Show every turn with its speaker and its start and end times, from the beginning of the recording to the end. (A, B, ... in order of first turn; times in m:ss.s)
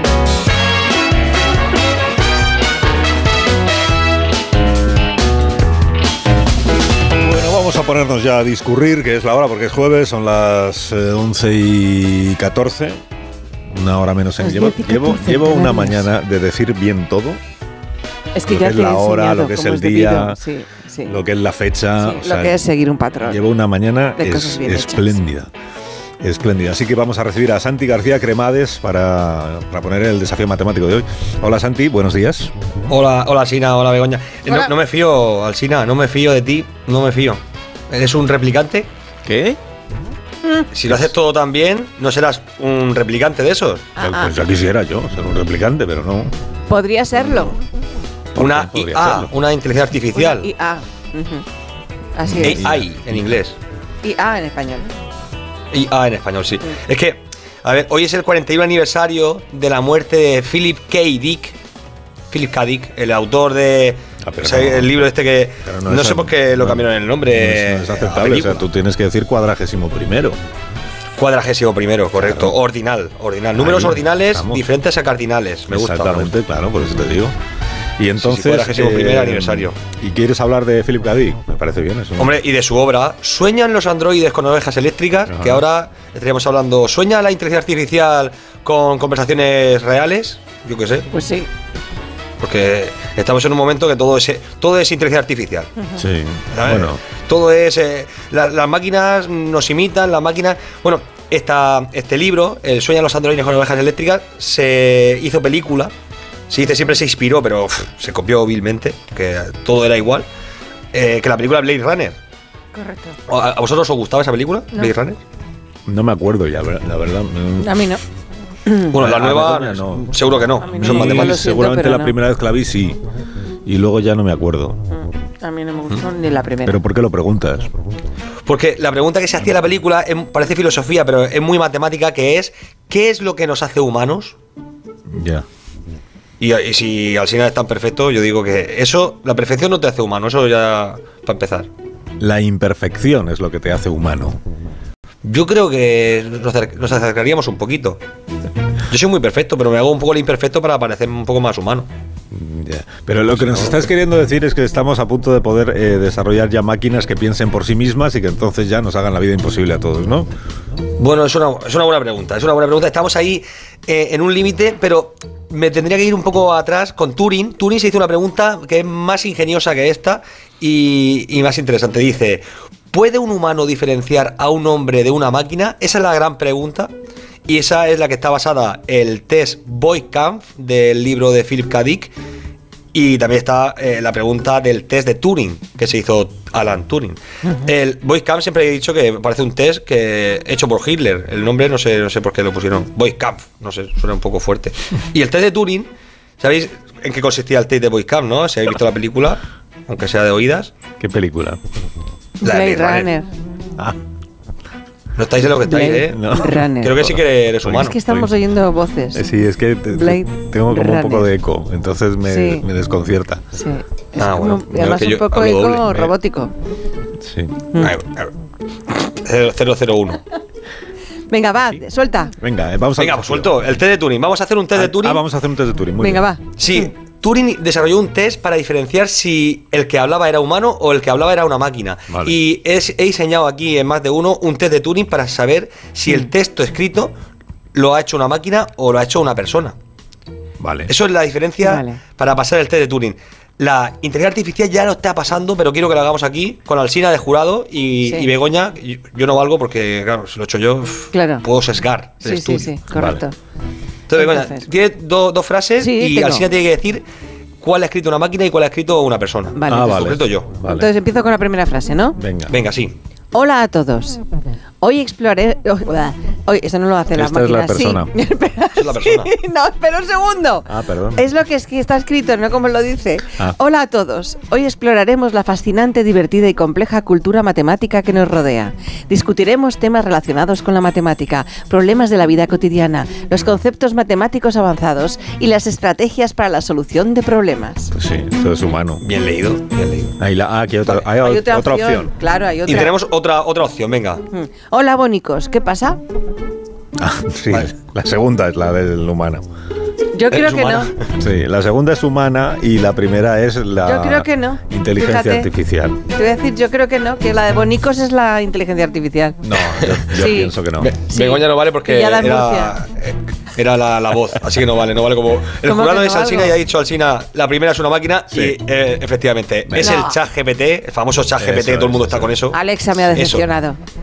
0:07.2-0:13.0 A
0:13.7-0:17.4 A
0:14.4-0:16.0 B
0:18.3-0:21.2 B
0:18.4-0:20.4 A
0:21.0-0:22.6 A
0:22.0-0:23.4 B
0:23.2-0:25.5 A
0:24.2-0:25.2 B
0:26.2-0:32.5 A
0:32.9-0:38.9 C
0:39.3-0:39.6 A
0:40.7-0:43.9 C
0:44.0-0:44.4 B
0:44.0-0:46.3 A
0:46.7-0:47.6 B
0:48.3-0:49.3 A
0:48.4-0:50.5 C
0:50.2-0:51.4 B
0:52.2-0:52.6 B
0:52.2-0:53.2 A
0:52.4-0:53.6 C
0:54.0-0:54.9 B
0:55.7-1:01.6 C
1:02.3-1:08.7 C
1:04.2-1:05.0 A
1:05.6-1:10.4 A
1:11.2-1:16.3 C
1:12.2-1:12.5 A
1:13.5-1:14.7 A
1:15.7-1:17.3 A
1:18.0-1:22.4 A
1:18.2-1:19.8 C
1:22.2-1:31.1 C
1:25.3-1:25.6 A
1:31.1-1:31.5 B
1:32.4-1:35.7 C
1:36.0-1:37.0 A
1:36.5-1:45.9 C
1:46.5-1:50.3 C
1:50.9-1:52.2 C
1:52.7-1:53.2 B
1:53.3-1:55.2 C
1:55.9-1:57.7 A
1:57.6-1:58.0 B
1:58.9-2:01.4 C
1:58.9-2:00.2 A
2:00.6-2:02.2 B
2:00.7-2:03.0 A
2:03.6-2:04.8 A
2:04.9-2:06.8 B
2:06.6-2:07.7 A
2:08.5-2:14.4 C
2:15.1-2:15.4 A
2:16.4-2:21.7 C
2:22.2-2:24.4 A
2:25.2-2:28.0 C
2:28.9-2:31.9 C
2:32.3-2:40.3 A
2:33.4-2:33.8 C
2:41.0-2:56.9 C
2:57.5-3:02.1 C
3:02.9-3:20.7 C
3:21.0-3:21.6 A
3:22.4-3:23.3 B
3:22.4-3:23.2 C
3:25.2-3:28.0 C
3:25.6-3:27.1 B
3:25.9-3:28.3 A
3:27.8-3:29.3 B
3:29.1-3:33.4 A
3:29.9-3:31.3 B
3:32.2-3:32.6 B
3:33.6-3:36.5 B
3:34.2-3:36.1 C
3:37.2-3:37.6 A
3:37.8-3:38.3 C
3:38.9-3:40.2 C
3:41.3-3:42.3 B
3:42.4-3:43.6 A
3:43.0-3:45.2 C
3:44.8-3:46.3 A
3:46.0-3:46.4 B
3:46.6-3:57.1 C
3:52.1-3:52.4 A
3:57.7-3:59.8 C
4:00.6-4:00.9 A
4:00.9-4:12.7 C
4:01.6-4:02.0 B
4:08.0-4:08.3 B
4:11.1-4:11.4 B
4:12.2-4:13.3 B
4:12.9-4:13.2 A
4:14.1-4:17.1 C
4:14.2-4:14.7 B
4:15.8-4:16.5 B
4:17.6-4:20.5 C
4:19.5-4:20.0 B
4:19.7-4:20.9 A
4:20.6-4:22.2 B
4:22.2-4:22.6 A
4:22.5-4:23.0 C
4:23.3-4:24.2 B
4:24.8-4:47.9 B
4:27.1-4:28.1 A
4:28.8-4:29.3 C
4:30.7-4:31.2 A
4:47.9-4:49.0 A
4:49.0-4:50.2 C
4:50.2-4:52.1 A
4:51.2-4:53.0 B
4:52.6-4:54.2 C
4:54.3-4:56.0 B
4:57.0-4:59.4 A
5:00.1-5:00.9 B
5:00.3-5:00.9 C
5:01.2-5:06.0 A
5:03.8-5:05.5 B
5:06.1-5:09.4 B
5:09.4-5:10.9 A
5:09.7-5:10.1 C
5:10.1-5:10.5 B
5:10.8-5:23.5 C
5:11.1-5:12.8 B
5:15.6-5:16.6 B
5:18.3-5:18.6 A
5:19.7-5:20.0 A
5:19.8-5:20.2 B
5:21.4-5:22.4 A
5:22.5-5:23.8 B